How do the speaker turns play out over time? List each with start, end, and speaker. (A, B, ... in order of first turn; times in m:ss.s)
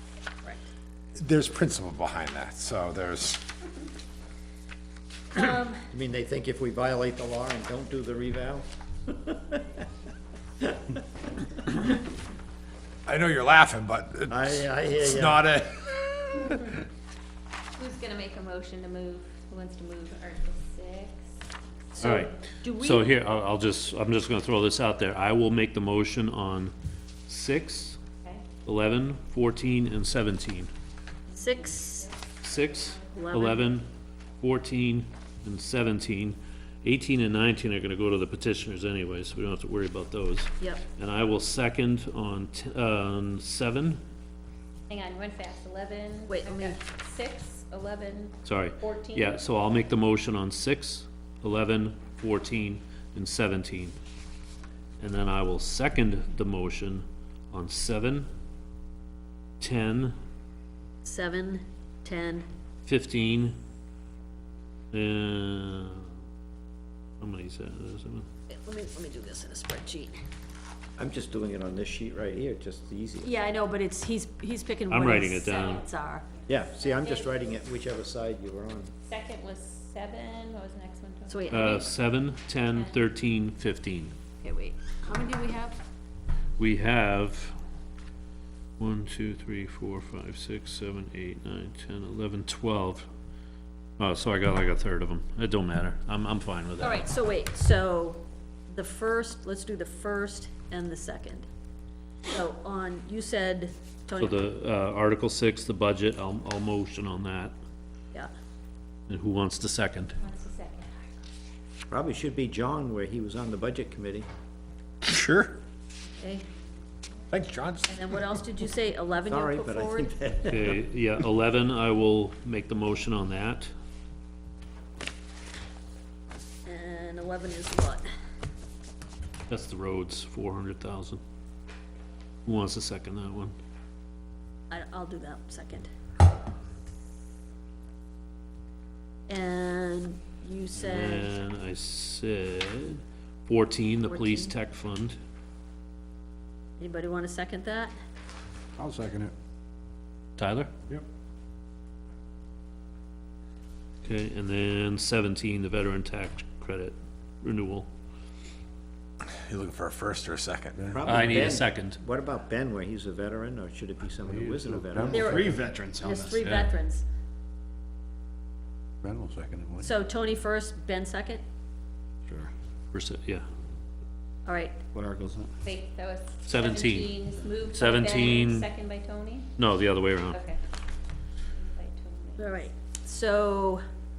0:01.2-0:03.5 A
0:05.3-0:05.9 B
0:05.9-0:09.8 C
0:13.1-0:16.7 A
0:14.3-0:15.5 C
0:17.8-0:21.4 D
0:22.0-0:26.7 E
0:22.0-0:23.2 B
0:27.3-0:28.0 E
0:28.6-0:30.7 E
0:31.3-0:33.0 D
0:31.3-0:32.1 B
0:32.4-0:33.9 E
0:33.1-0:33.6 B
0:34.4-0:44.0 E
0:44.9-0:49.4 D
0:46.3-0:46.8 B
0:48.4-0:54.0 E
0:55.0-0:58.3 E
0:59.6-1:00.2 E
1:01.0-1:02.5 B
1:02.8-1:03.6 E
1:04.9-1:06.2 E
1:07.2-1:08.3 E
1:08.5-1:10.2 B
1:11.0-1:13.3 C
1:13.2-1:16.4 B
1:14.9-1:15.8 E
1:16.5-1:18.9 C
1:16.5-1:17.4 D
1:19.0-1:21.9 D
1:21.3-1:21.9 B
1:21.5-1:24.2 E
1:22.7-1:23.0 D
1:24.4-1:25.8 B
1:26.6-1:27.6 E
1:28.8-1:33.1 E
1:34.0-1:37.0 E
1:36.8-1:41.5 B
1:42.3-1:44.4 B
1:44.2-1:47.5 E
1:49.1-1:50.2 E
1:50.2-1:51.2 D
1:51.9-1:54.3 C
1:55.0-1:55.6 A
1:57.3-1:57.9 A
1:57.9-2:00.2 B
1:59.3-2:00.9 C
2:00.5-2:03.7 E
2:06.7-2:08.0 B
2:09.5-2:11.2 E
2:12.4-2:13.6 E
2:14.7-2:15.9 B
2:19.3-2:21.3 B
2:20.8-2:25.2 E
2:24.0-2:24.6 B
2:26.8-2:27.9 B
2:28.8-2:29.3 F
2:30.4-2:30.7 E
2:34.0-2:37.9 E
2:39.2-2:40.9 A
2:40.8-2:41.2 F
2:40.9-2:45.5 C
2:41.0-2:42.0 E
2:44.2-2:46.4 F
2:45.1-2:47.0 B
2:46.4-2:46.7 E
2:49.0-2:50.0 F
2:49.8-2:51.4 B
2:52.9-2:53.4 E
2:54.5-2:54.8 B
2:54.9-2:55.5 F
2:55.6-2:59.5 D
2:56.5-2:57.2 E
2:57.7-2:58.7 E
2:59.6-3:00.4 E
3:00.3-3:00.6 D
3:01.4-3:02.6 D
3:02.4-3:03.8 B